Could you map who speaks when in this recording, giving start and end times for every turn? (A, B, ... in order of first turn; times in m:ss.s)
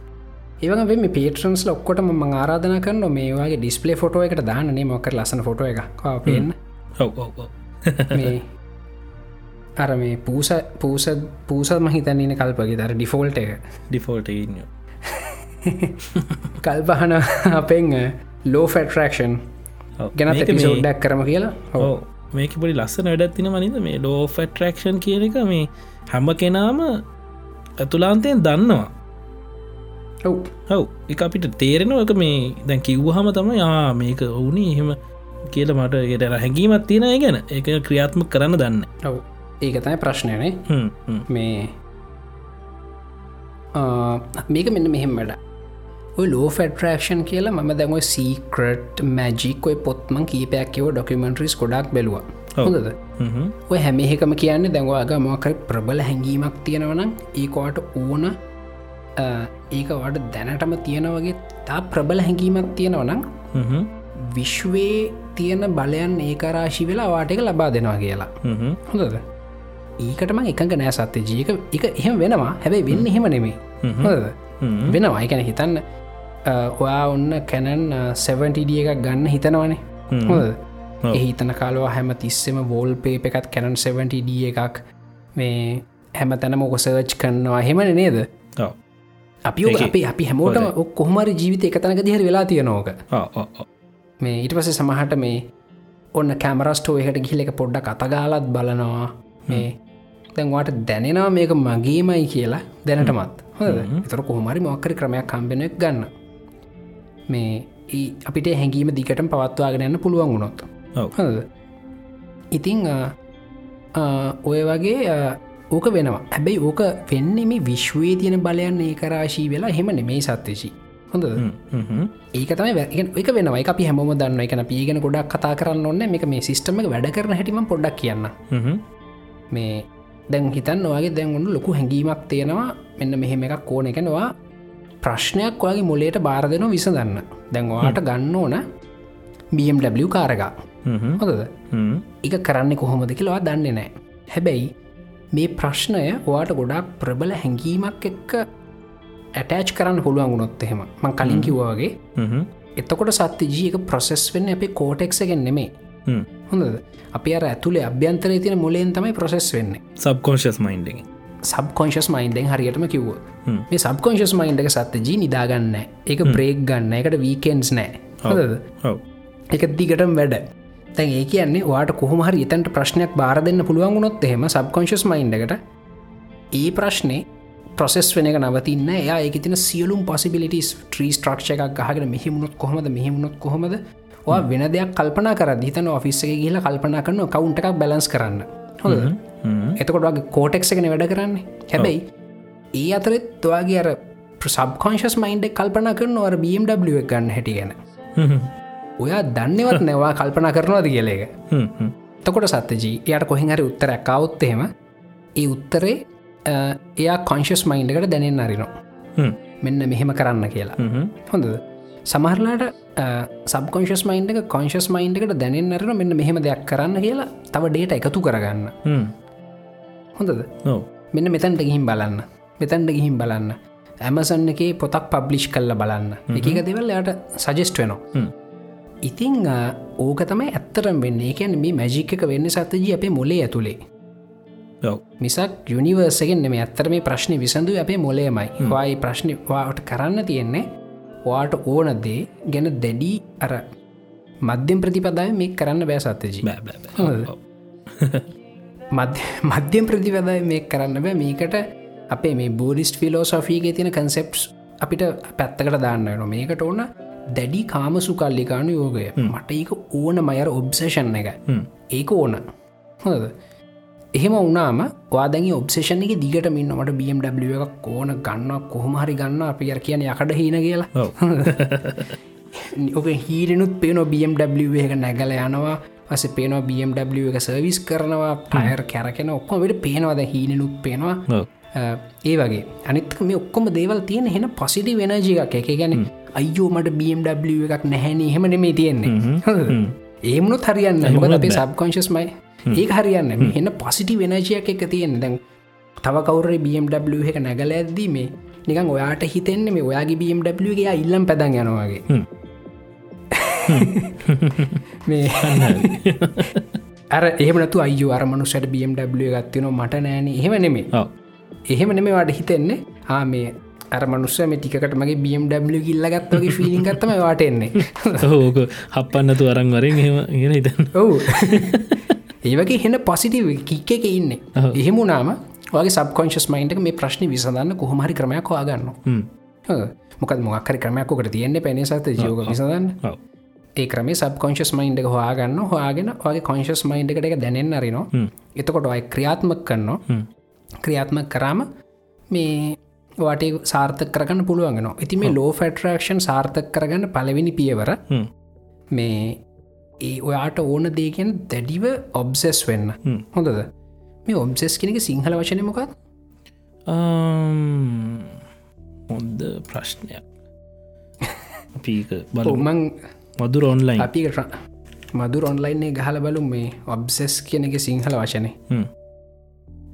0:00.6-0:06.6 A
0:06.2-0:08.4 B
0:08.1-0:08.5 A
0:09.8-0:13.6 A
0:13.9-0:14.7 B
0:15.0-0:19.4 A
0:16.2-0:16.5 B
0:20.0-0:20.9 B
0:20.2-0:22.0 A
0:21.8-0:27.0 B
0:27.8-0:28.9 B
0:30.2-0:30.5 A
0:30.7-0:35.0 B
0:35.5-0:38.9 B
0:39.0-0:40.7 A
0:40.7-0:41.3 B
0:41.3-0:41.8 A
0:43.7-0:45.4 A
0:46.2-0:53.0 A
0:52.6-0:53.6 B
0:53.7-0:58.4 A
0:59.2-1:03.4 A
1:03.5-1:03.9 B
1:04.2-1:09.2 A
1:08.4-1:08.8 B
1:10.0-1:15.8 A
1:13.8-1:15.0 B
1:16.5-1:20.6 A
1:20.1-1:20.5 B
1:21.1-1:24.8 A
1:25.4-1:28.3 A
1:29.5-1:33.0 A
1:29.7-1:30.7 B
1:33.1-1:33.7 B
1:34.2-1:35.4 A
1:36.2-1:39.8 A
1:40.4-1:46.1 A
1:43.7-1:44.0 B
1:47.3-1:51.5 A
1:52.5-1:53.1 A
1:54.0-2:01.5 A
2:01.4-2:02.1 B
2:02.3-2:08.4 A
2:08.5-2:08.8 B
2:09.5-2:14.3 A
2:15.0-2:18.6 A
2:19.5-2:20.6 A
2:20.9-2:22.1 B
2:21.2-2:21.6 A
2:22.2-2:24.7 A
2:25.3-2:28.5 A
2:29.4-2:32.0 A
2:31.2-2:31.6 B
2:32.2-2:32.5 B
2:32.8-2:35.7 A
2:36.5-2:39.8 A
2:40.0-2:41.1 B
2:41.5-2:48.6 A
2:48.2-2:49.0 B
2:49.5-2:55.6 A
2:56.5-2:57.2 A
2:57.8-3:09.2 A
3:08.9-3:09.8 B
3:09.8-3:12.1 A
3:12.7-3:17.8 A
3:18.2-3:18.5 B
3:19.0-3:21.3 A
3:21.5-3:22.0 B
3:22.2-3:24.7 A
3:25.4-3:28.7 A
3:29.6-3:38.8 A
3:30.8-3:31.1 B
3:38.8-3:39.1 B
3:40.2-3:40.5 A
3:41.1-3:48.1 A
3:46.3-3:46.6 B
3:49.0-3:53.8 A
3:55.2-4:00.7 A
4:01.3-4:03.7 A
4:04.4-4:07.3 A
4:06.4-4:08.3 B
4:08.9-4:22.4 A
4:23.0-4:23.4 A
4:24.2-4:31.7 A
4:31.0-4:32.1 B
4:32.5-4:55.4 A
4:49.1-4:50.0 B
4:51.0-4:51.6 B
4:56.0-5:02.1 A
5:03.3-5:04.3 A
5:03.7-5:04.8 B
5:05.0-5:06.1 A
5:05.4-5:06.8 B
5:07.1-5:10.9 A
5:11.7-5:18.4 A
5:16.3-5:17.0 B
5:18.2-5:22.1 B
5:20.9-5:29.0 A
5:29.7-5:33.0 A
5:32.2-5:33.2 B
5:33.8-5:40.0 A
5:40.8-5:41.7 A
5:42.3-5:48.0 A
5:48.9-5:49.4 A
5:50.0-5:53.7 A
5:54.3-5:55.9 A
5:56.9-5:58.4 B
5:59.1-6:00.3 B
6:01.8-6:02.7 B
6:02.4-6:03.0 A
6:03.4-6:04.1 B
6:04.0-6:04.5 A
6:05.1-6:08.6 A